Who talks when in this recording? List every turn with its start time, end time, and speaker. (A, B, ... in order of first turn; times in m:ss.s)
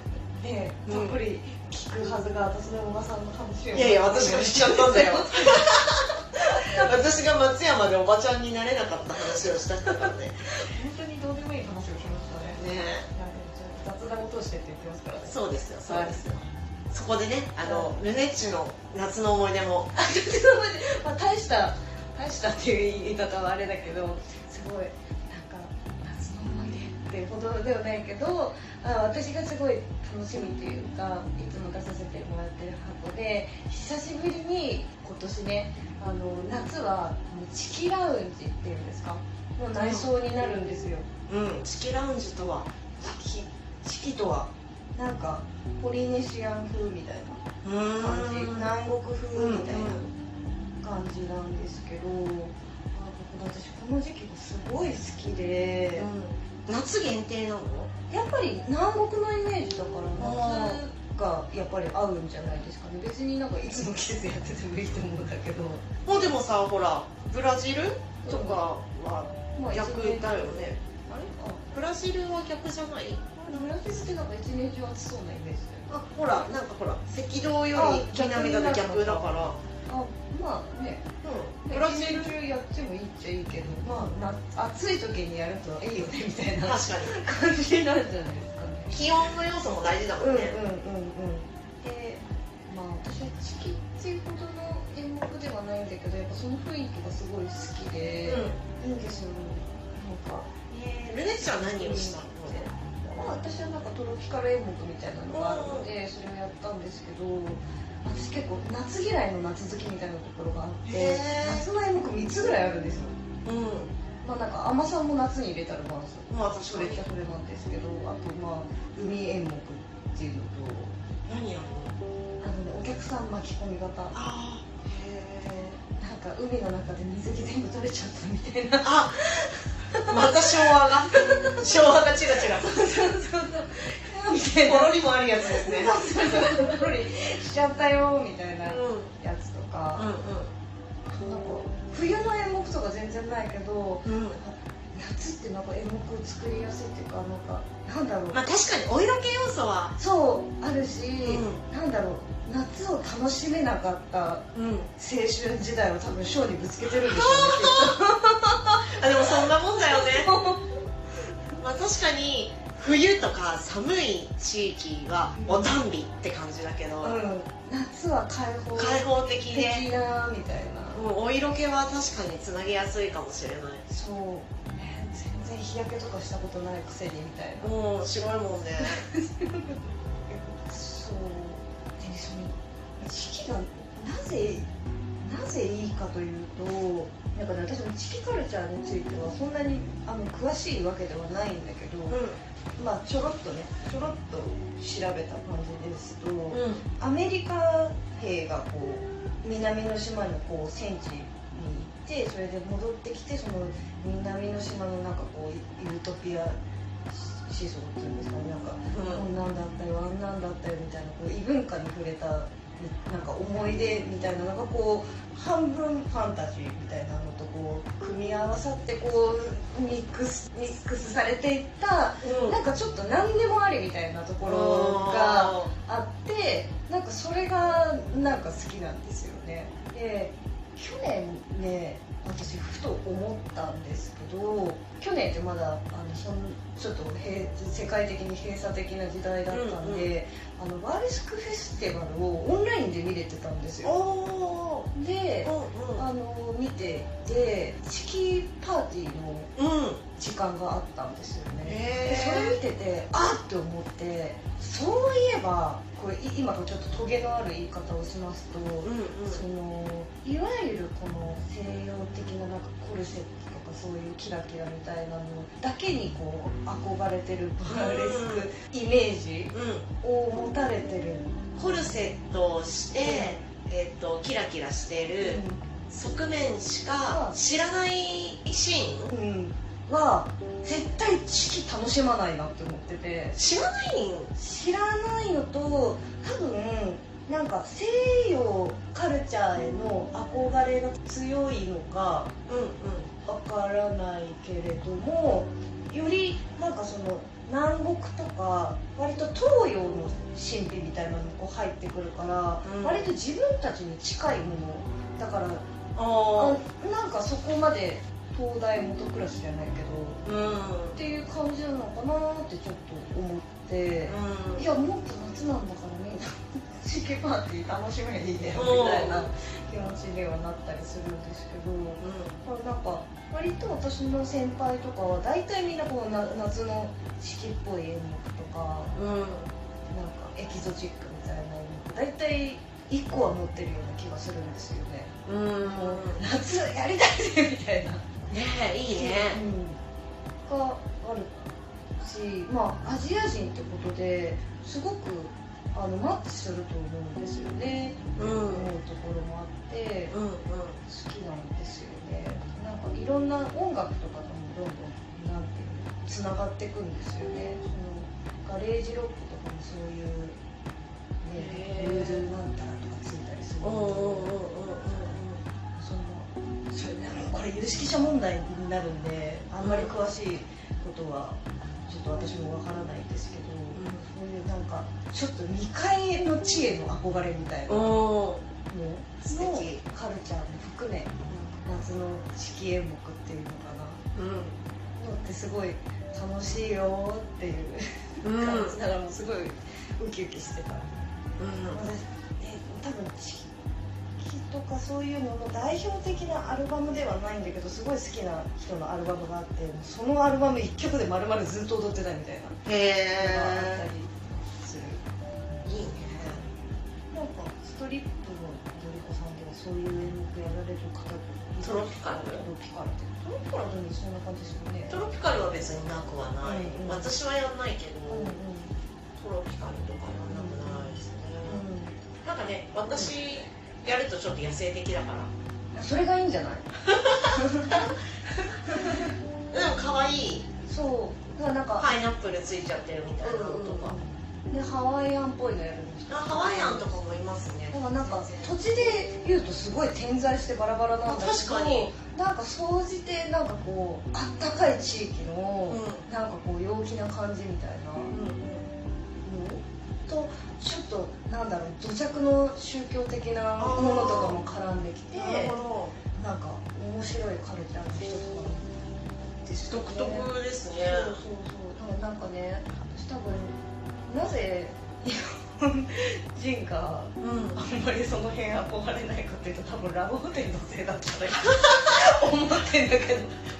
0:00.3-0:07.0 A
0:00.9-0:01.2 B
0:03.7-0:06.1 B
0:06.7-0:10.5 B
0:10.5-0:12.6 A
0:12.6-0:13.1 B
0:13.1-0:16.4 A
0:15.2-0:19.9 B
0:17.6-0:17.9 A
0:19.9-0:41.1 A
0:39.8-0:40.1 B
0:41.3-0:42.7 B
0:43.0-0:47.4 A
0:47.6-0:48.7 B
0:48.0-0:50.0 A
0:49.3-0:50.1 B
0:50.8-0:56.1 A
0:56.0-0:57.9 B
0:58.1-1:06.0 A
1:00.2-1:00.8 B
1:06.0-1:10.8 B
1:08.2-1:08.6 A
1:09.5-1:11.6 A
1:11.7-1:13.6 B
1:13.4-1:15.9 A
1:15.9-1:19.6 B
1:17.7-1:19.3 A
1:19.9-1:21.1 A
1:21.2-1:22.3 B
1:21.6-1:29.0 A
1:26.6-1:27.1 B
1:28.9-1:30.6 B
1:30.2-1:53.2 A
1:38.2-1:38.6 B
1:41.0-1:42.6 B
1:45.3-1:45.9 B
1:50.8-1:51.7 B
1:53.4-1:53.9 B
1:54.2-2:01.0 A
1:56.3-1:57.0 B
2:01.2-2:02.0 B
2:02.4-2:04.2 A
2:04.1-2:05.8 B
2:06.0-2:11.6 A
2:08.8-2:09.2 B
2:10.1-2:12.9 B
2:12.5-2:20.1 A
2:14.6-2:16.7 B
2:18.6-2:19.1 B
2:20.0-2:20.5 B
2:21.1-2:28.4 A
2:24.0-2:24.4 B
2:28.3-2:29.9 B
2:30.0-2:40.8 A
2:31.2-2:31.6 B
2:34.5-2:34.9 B
2:37.0-2:38.0 B
2:38.9-2:40.3 B
2:41.6-2:47.2 B
2:45.4-2:45.7 A
2:47.0-2:51.0 A
2:48.7-2:49.9 B
2:50.9-2:53.8 B
2:53.9-2:57.7 A
2:57.6-2:59.0 B
2:58.8-3:04.7 A
3:05.2-3:12.2 A
3:12.1-3:12.4 B
3:12.8-3:26.6 A
3:16.5-3:16.8 B
3:27.1-4:03.9 A
3:28.9-3:29.2 B
3:42.2-3:42.6 B
3:44.4-3:45.7 B
3:59.5-4:00.1 B
4:03.8-4:04.9 B
4:04.9-4:09.5 A
4:05.4-4:06.0 B
4:09.6-4:10.0 B
4:10.2-4:31.4 A
4:11.6-4:12.6 B
4:18.8-4:19.4 B
4:27.6-4:28.5 B
4:29.5-4:29.8 B
4:31.6-4:39.1 B
4:33.0-4:33.4 A
4:35.2-4:35.6 A
4:37.1-4:37.4 A
4:39.1-4:43.4 A
4:43.4-4:44.3 B
4:44.3-4:52.3 A
4:52.5-4:53.1 B
4:53.2-5:05.6 A
5:02.6-5:03.0 B
5:06.0-5:06.6 B
5:06.3-5:10.2 A
5:10.2-5:11.0 B
5:10.9-5:28.9 A
5:14.1-5:14.7 B
5:18.5-5:19.2 B
5:22.0-5:22.4 B
5:28.9-5:29.5 B
5:29.9-5:38.1 A
5:35.2-5:36.2 B
5:38.3-5:39.4 B
5:38.9-5:39.8 A
5:40.4-5:41.3 A
5:42.0-5:50.1 A
5:48.2-5:48.7 B
5:50.1-5:50.8 B
5:50.8-6:00.4 A
6:01.2-6:04.4 A
6:01.3-6:02.3 B
6:03.6-6:05.4 B
6:04.9-6:05.2 A
6:05.8-6:18.1 A
6:09.6-6:09.9 B
6:13.7-6:14.1 B
6:17.7-6:18.4 B
6:18.7-6:24.0 A
6:19.2-6:19.8 B
6:21.3-6:21.6 B
6:24.1-6:24.6 B
6:25.0-6:30.9 A
6:28.2-6:28.8 B
6:31.4-6:31.8 B
6:31.7-6:33.5 A
6:34.2-6:42.6 A
6:42.6-6:43.8 B
6:43.2-6:45.0 A
6:45.6-6:46.4 B
6:46.2-6:46.5 A
6:47.1-6:55.0 A
6:51.6-6:52.4 B
6:54.9-6:58.4 B
6:56.4-6:57.1 A
6:58.1-6:58.7 A
6:59.2-7:01.6 B
7:00.3-7:02.0 A
7:02.2-7:05.3 B
7:02.9-7:03.2 A
7:05.7-7:08.0 A
7:06.9-7:07.7 B
7:08.6-7:09.1 A
7:08.7-7:10.5 B
7:10.6-7:11.9 A
7:11.8-7:14.0 B
7:13.2-7:16.9 A
7:16.1-7:18.5 B
7:17.7-7:28.1 A
7:21.0-7:21.9 B
7:25.7-7:26.0 B
7:28.1-7:28.7 B
7:29.2-7:35.6 A
7:33.6-7:34.4 B
7:35.1-7:35.9 B
7:36.1-7:38.7 A
7:39.4-7:43.6 A
7:39.7-7:41.2 B
7:44.1-7:53.4 A
7:47.2-7:47.6 B